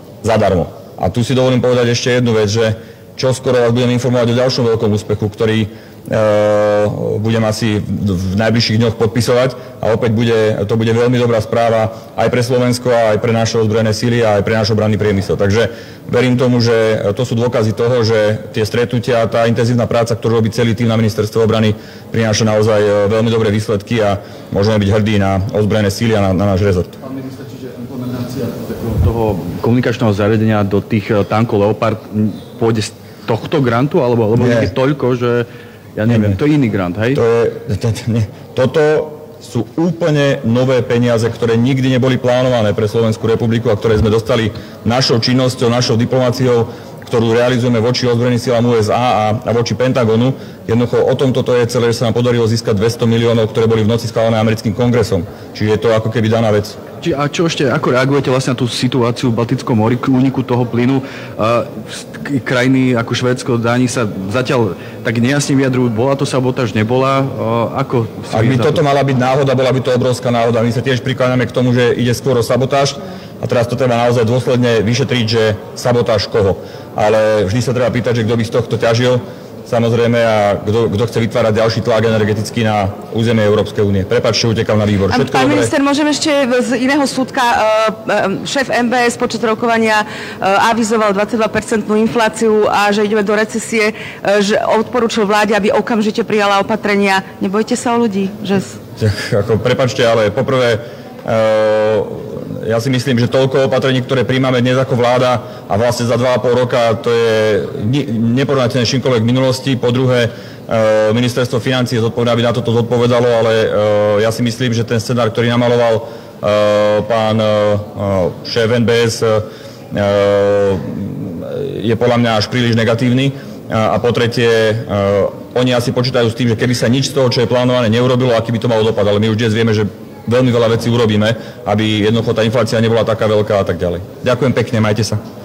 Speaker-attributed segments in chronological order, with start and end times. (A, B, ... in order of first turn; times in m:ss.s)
0:00.2-0:26.9 A
0:27.9-0:37.2 B
0:34.4-0:34.7 A
0:36.1-0:36.4 A
0:37.1-0:56.8 A
0:57.0-1:08.8 B
1:08.3-1:25.7 A
1:25.1-1:38.8 C
1:39.0-2:15.2 A